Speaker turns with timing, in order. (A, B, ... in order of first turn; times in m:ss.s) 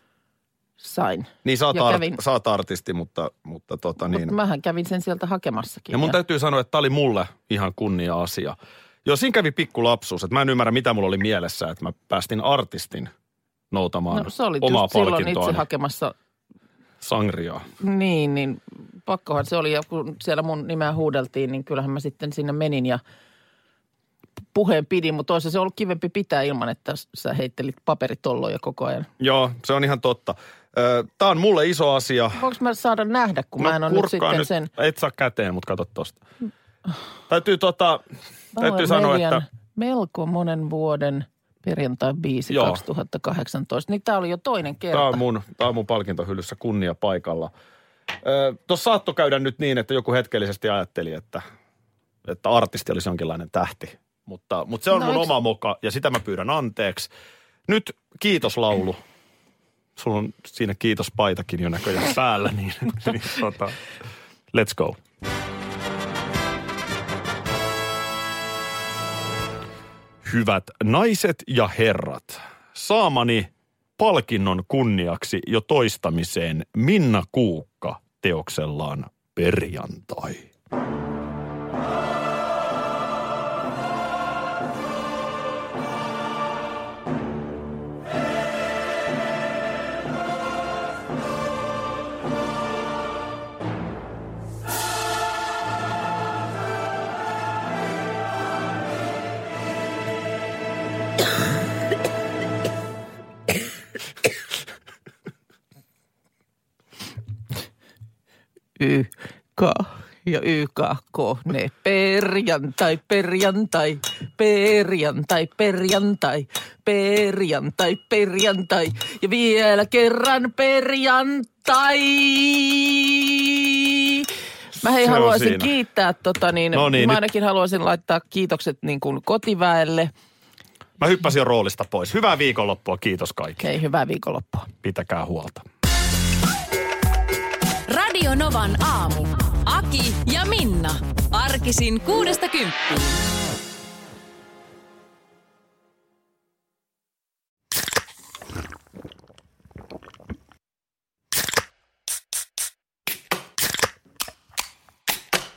0:00.8-0:02.2 A
0:01.4-0:04.4 B
0:04.0-0:06.2 A
0:05.9-0:13.1 B
0:13.7-0:15.6 B
0:14.1-0:16.1 A
0:17.0-0:17.7 B
0:17.8-0:23.0 A
0:24.5-0:29.1 A
0:29.2-0:32.4 B
0:32.4-0:34.7 A
0:33.6-0:36.2 B
0:37.3-0:38.0 B
0:38.5-0:45.2 A
0:38.6-0:39.4 B
0:42.5-0:42.8 B
0:44.9-0:47.5 B
0:48.2-0:51.4 B
0:52.2-0:57.1 B
0:54.9-0:55.3 A
0:57.7-0:59.0 B
1:00.0-1:03.8 B
1:04.5-1:05.0 B
1:10.2-1:20.5 B
1:48.8-2:10.1 A
2:04.8-2:05.7 B
2:06.7-2:07.2 B
2:11.0-2:13.6 B
2:13.6-2:14.7 A
2:14.8-2:15.6 B
2:17.9-2:23.2 C